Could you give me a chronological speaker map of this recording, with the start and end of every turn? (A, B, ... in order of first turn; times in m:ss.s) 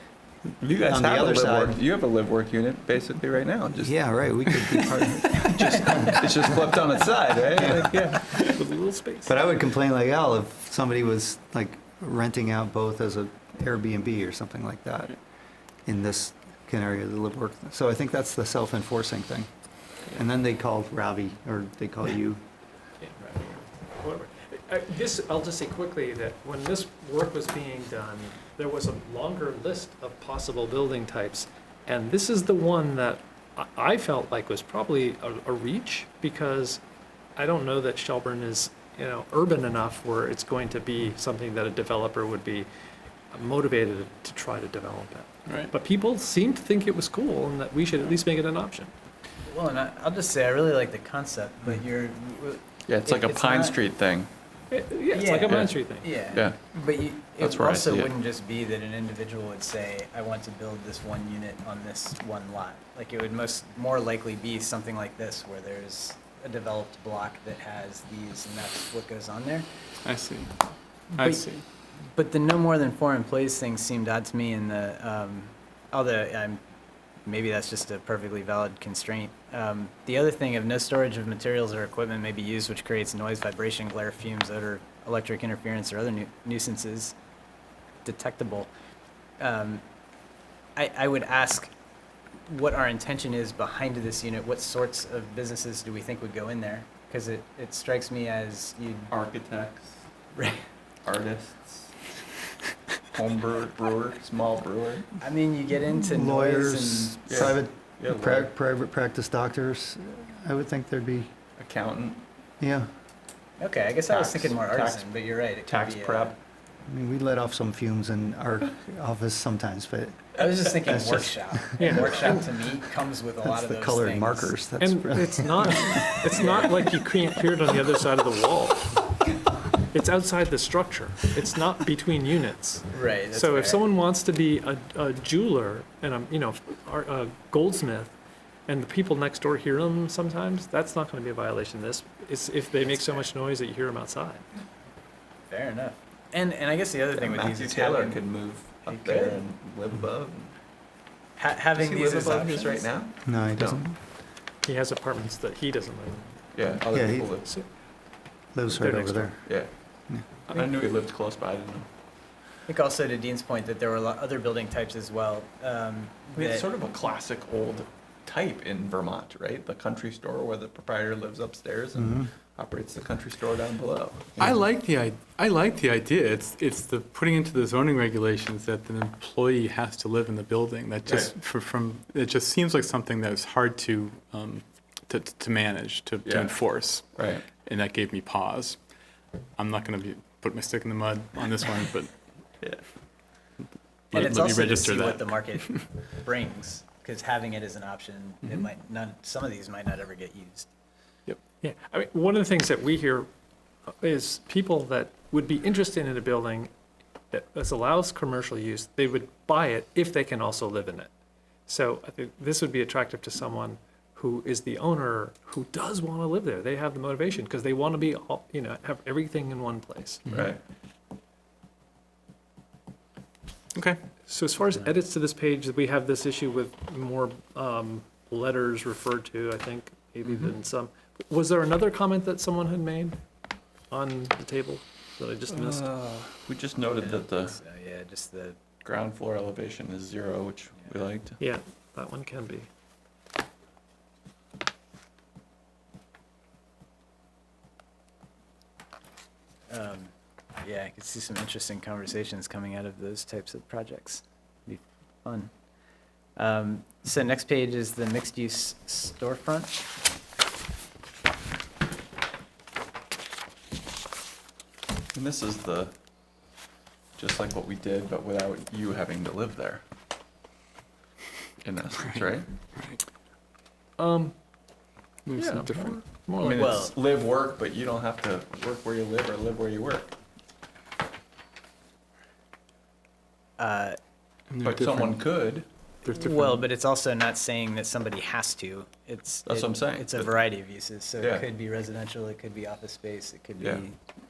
0:00.6-0:04.0 A
0:00.9-0:01.8 B
0:03.8-0:06.6 B
0:04.5-0:08.5 A
0:07.4-0:09.3 C
0:07.5-0:07.9 B
0:09.2-0:15.2 B
0:15.8-0:19.5 B
0:20.1-0:22.4 B
0:23.0-0:36.8 C
0:37.4-0:42.7 C
0:43.3-0:48.9 C
0:45.5-0:45.7 D
0:49.5-0:53.8 E
0:52.8-0:54.3 A
0:54.7-0:56.1 C
0:55.1-1:09.7 E
0:56.3-0:56.8 A
0:57.4-0:58.1 A
1:10.0-1:10.5 D
1:11.1-1:11.6 D
1:11.2-1:11.4 E
1:12.1-1:16.6 E
1:17.2-1:27.1 E
1:28.0-1:28.7 E
1:29.4-1:29.8 E
1:30.8-1:31.7 E
1:32.5-1:39.1 E
1:39.1-1:40.0 A
1:40.3-1:40.6 E
1:41.0-1:41.9 A
1:43.1-1:45.1 A
1:45.2-1:47.6 E
1:46.0-1:51.3 B
1:47.3-1:48.5 A
1:51.6-1:52.2 A
1:52.6-1:52.9 B
1:53.6-1:56.4 E
1:54.1-1:56.4 A
1:56.9-2:02.4 B
2:00.4-2:04.5 E
2:01.8-2:02.4 C
2:03.4-2:06.2 B
2:04.8-2:09.1 C
2:09.9-2:18.1 C
2:12.9-2:13.8 E
2:18.7-2:24.4 C
2:22.9-2:23.2 E
2:25.5-2:28.2 E
2:27.1-2:30.5 A
2:28.8-2:29.4 E
2:31.4-2:32.9 E
2:31.7-2:33.8 A
2:33.2-2:34.0 B
2:34.6-2:36.3 C
2:36.5-2:37.5 A
2:36.9-2:37.4 B
2:38.5-2:39.4 B
2:38.7-2:39.4 C
2:39.4-2:39.7 A
2:40.5-2:41.9 A
2:42.7-2:46.6 E
2:46.3-2:54.6 A
2:52.0-2:52.3 B
2:54.4-3:08.8 D
3:01.0-3:01.3 A
3:06.2-3:06.6 A
3:07.2-3:07.4 A
3:09.6-3:12.1 D
3:14.1-3:15.8 D
3:14.1-3:20.7 E
3:21.3-3:23.3 C
3:24.0-3:26.7 C
3:27.3-3:31.1 C
3:31.7-3:40.2 C
3:40.3-3:40.6 A
3:43.7-3:44.0 D
3:44.3-3:53.2 C
3:53.9-3:55.9 C
3:55.5-3:57.6 A
3:56.9-3:58.6 E
3:58.8-4:01.4 A
4:01.4-4:02.7 C
4:09.7-4:15.5 E
4:16.4-4:19.8 E
4:25.1-4:25.9 A
4:27.2-4:29.8 A
4:31.6-4:32.5 A
4:32.0-4:33.0 D
4:34.0-4:34.3 C
4:35.2-4:36.0 D
4:35.4-4:36.9 C
4:36.4-4:40.1 A
4:36.5-4:36.9 E
4:43.6-4:44.0 E
4:44.5-4:45.2 D
4:44.6-4:45.6 A
4:46.0-4:46.6 D
4:46.1-4:54.0 E
4:49.4-4:50.3 A